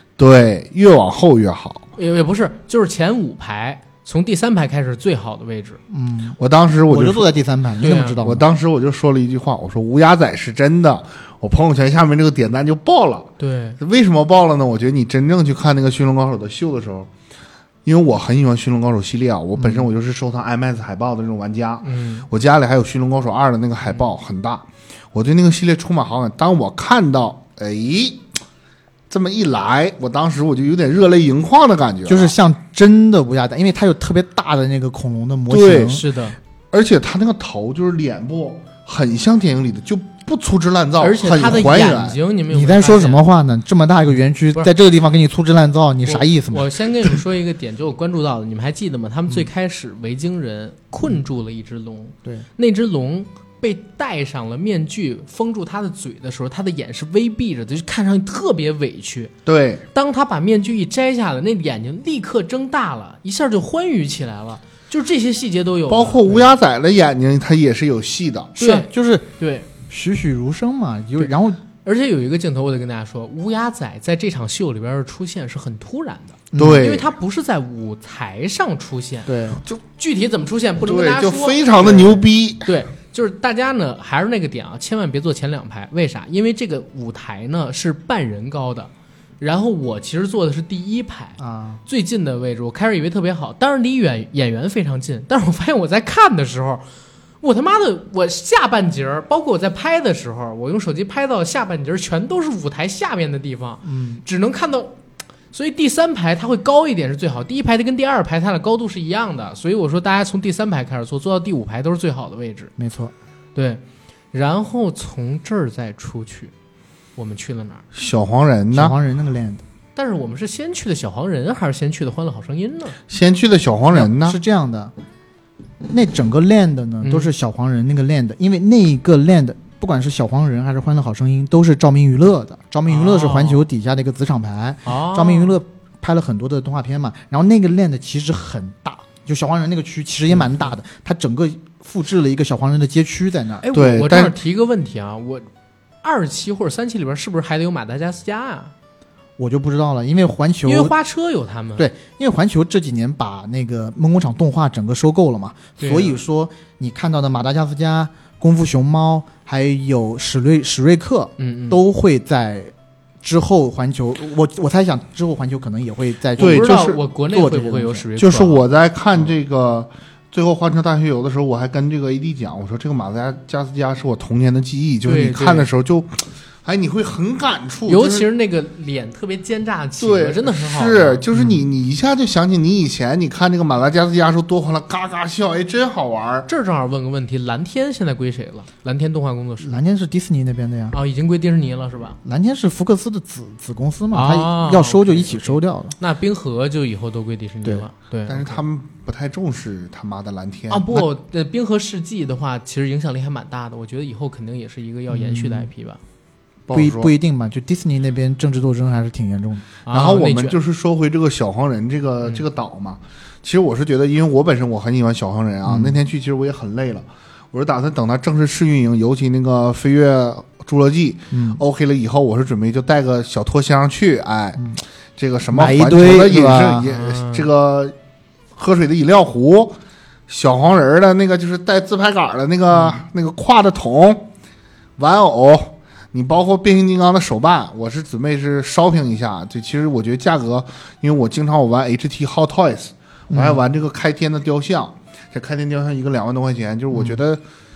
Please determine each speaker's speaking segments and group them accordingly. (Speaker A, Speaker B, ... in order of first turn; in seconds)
Speaker A: 0.2-1.9, 6.4-7.3, 8.2-17.1, 17.8-28.2, 29.1-32.3, 35.5-36.0, 36.7-42.2, 59.5-59.8, 65.9-68.5, 76.5-77.1, 80.8-82.7, 117.9-119.0, 123.1-124.4, 143.7-144.3, 166.4-167.0, 168.2-178.2, 180.0-186.5, 198.3-200.9, 206.7-207.1, 209.9-224.7, 225.2-227.9, 228.6-229.8, 230.3-234.3, 235.0-247.4
Speaker B: 2.0-5.8, 7.8-8.2, 13.4-13.8, 21.8-22.3, 35.9-36.4, 41.0-43.2, 46.0-59.3, 59.9-66.5, 68.6-69.7, 71.8-79.3, 80.0-88.9, 89.4-96.9, 97.4-105.0, 105.5-112.7, 113.5-116.5, 117.2-117.8, 119.9-123.0, 127.0-127.3, 132.9-133.7, 134.8-135.5, 140.3-140.7, 143.6-145.5, 146.0-148.7, 150.6-151.9, 155.8-156.2, 161.4-161.8, 166.4-168.6, 175.0-175.7, 177.9-181.2, 186.5-189.8, 190.9-192.2, 194.1-198.6, 200.7-206.0, 209.8-210.6, 226.8-227.5, 232.7-233.0
Speaker C: 5.9-8.5, 19.6-19.8, 32.0-36.0, 42.5-46.7, 68.6-71.6, 76.5-76.9, 79.3-79.6, 91.4-91.8, 103.8-104.2, 112.8-113.1, 118.7-119.6, 123.9-124.9, 125.9-143.7, 149.4-150.9, 151.8-168.1, 189.6-191.0, 192.2-195.9, 205.1-205.7, 206.7-209.7, 215.6-216.0, 221.3-221.6, 225.5-226.9, 243.3-243.6, 246.9-247.2